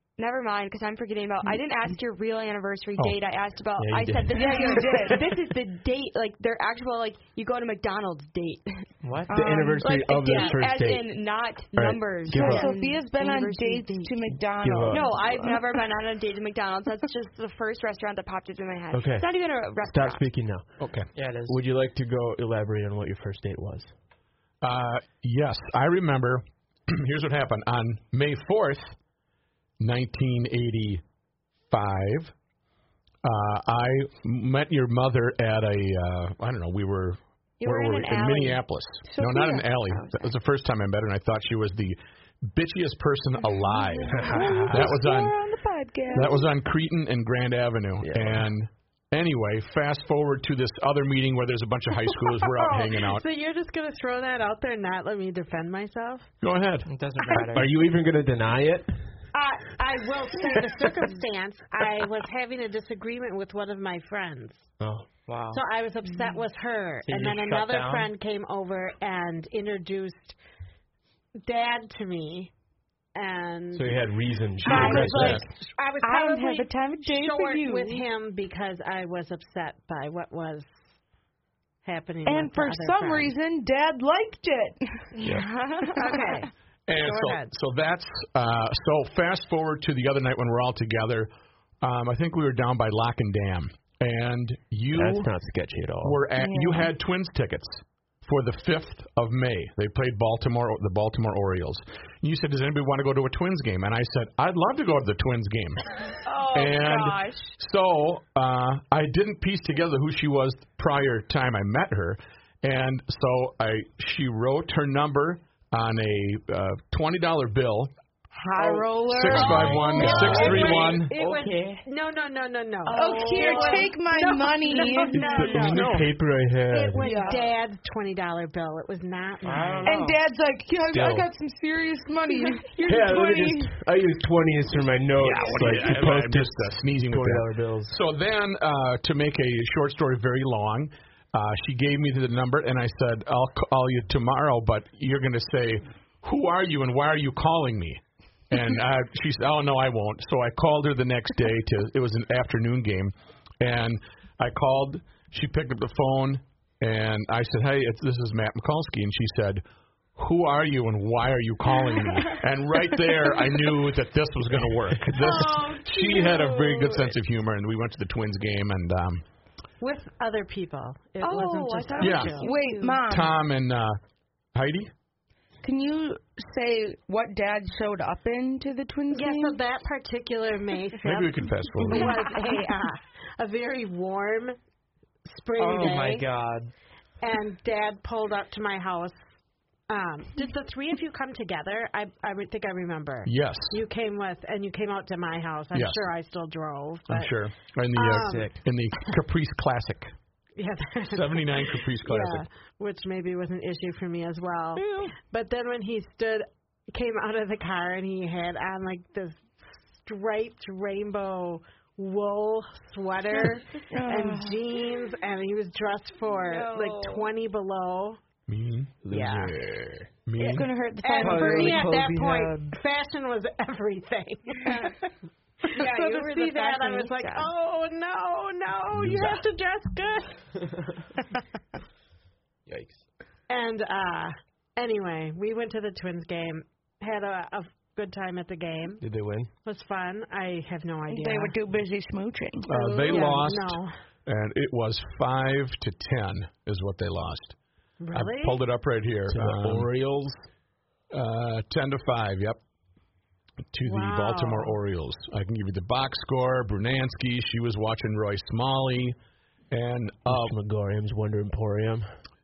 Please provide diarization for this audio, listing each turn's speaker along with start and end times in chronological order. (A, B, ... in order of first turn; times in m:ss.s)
0:00.2-0:14.2 A
0:03.8-0:04.9 B
0:04.3-0:05.3 C
0:09.0-0:09.4 D
0:09.3-0:09.8 C
0:09.3-0:11.0 B
0:11.7-0:12.7 B
0:12.3-0:15.6 C
0:12.4-0:12.7 E
0:14.6-0:15.2 B
0:14.9-0:20.2 A
0:18.9-0:20.8 B
0:20.8-0:21.1 F
0:21.1-0:21.6 D
0:21.5-0:23.9 B
0:24.6-0:29.0 F
0:29.8-0:31.0 F
0:31.7-0:32.3 F
0:33.2-0:45.4 F
0:37.6-0:38.6 A
0:39.0-0:39.7 C
0:39.8-0:40.3 A
0:44.1-0:45.0 B
0:44.2-0:46.5 C
0:46.1-0:53.2 F
0:48.0-0:48.5 B
0:52.3-0:56.3 E
0:56.4-0:56.9 F
0:56.8-0:57.7 D
0:57.3-0:59.0 B
0:59.3-1:04.7 E
1:00.6-1:00.9 B
1:04.8-1:05.1 B
1:05.3-1:05.6 D
1:05.5-1:10.4 E
1:07.0-1:08.1 D
1:11.4-1:12.5 E
1:13.1-1:14.1 E
1:13.7-1:15.5 B
1:14.6-1:20.9 E
1:14.6-1:18.1 C
1:21.8-1:23.3 E
1:22.2-1:25.2 C
1:25.2-1:26.4 A
1:26.0-1:27.5 E
1:26.9-1:35.3 F
1:34.9-1:36.2 B
1:36.0-1:46.0 F
1:36.4-1:36.9 C
1:46.2-1:47.5 A
1:46.5-1:57.9 F
1:58.4-2:00.9 C
1:59.0-2:01.1 F
1:59.4-2:05.8 E
1:59.4-2:00.7 A
2:00.1-2:00.6 B
2:01.1-2:01.8 D
2:02.8-2:04.0 A
2:03.0-2:05.5 C
2:04.6-2:05.9 A
2:05.1-2:07.1 B
2:05.6-2:06.1 F
2:06.7-2:10.0 E
2:07.0-2:07.5 C
2:07.2-2:07.4 A
2:09.4-2:10.0 D
2:09.8-2:12.7 C
2:10.9-2:11.3 B
2:12.3-2:13.6 A
2:12.8-2:18.0 B
2:15.2-2:16.0 C
2:15.2-2:39.6 F
2:40.2-2:49.2 F
2:45.1-2:47.1 E
2:46.1-2:46.7 A
2:49.8-2:52.5 E
2:51.2-2:53.0 A
2:52.0-2:52.4 F
2:52.3-2:53.3 C
2:53.1-2:54.0 F
2:54.5-2:54.9 F
2:55.6-2:59.6 C
2:59.1-3:04.6 E
3:01.0-3:02.2 F
3:01.9-3:02.5 A
3:05.3-3:06.3 E
3:05.6-3:06.7 D
3:07.2-3:09.2 E
3:09.9-3:17.3 E
3:13.2-3:13.8 F
3:15.7-3:16.1 F
3:17.1-3:20.1 F
3:18.0-3:18.6 E
3:20.6-3:38.2 E
3:21.0-3:22.5 F
3:33.9-3:34.6 C
3:36.2-3:37.3 A
3:38.5-3:39.0 F
3:39.0-3:40.1 B
3:39.1-3:39.7 E
3:40.3-3:40.7 F
3:40.4-3:42.0 C
3:40.4-3:45.0 E
3:41.2-3:42.8 D
3:44.6-3:44.9 A
3:45.6-3:50.7 E
3:45.7-3:47.5 A
3:52.7-3:53.0 B
3:53.5-3:59.0 E
3:59.0-3:59.5 B
3:59.6-4:01.6 E
4:01.1-4:02.7 C
4:02.6-4:07.6 F
4:02.7-4:04.0 E
4:08.0-4:08.6 E
4:08.1-4:09.9 F
4:09.3-4:10.4 B
4:11.1-4:12.6 F
4:13.7-4:19.2 F
4:13.8-4:14.8 E
4:19.7-4:20.5 F
4:20.2-4:22.2 B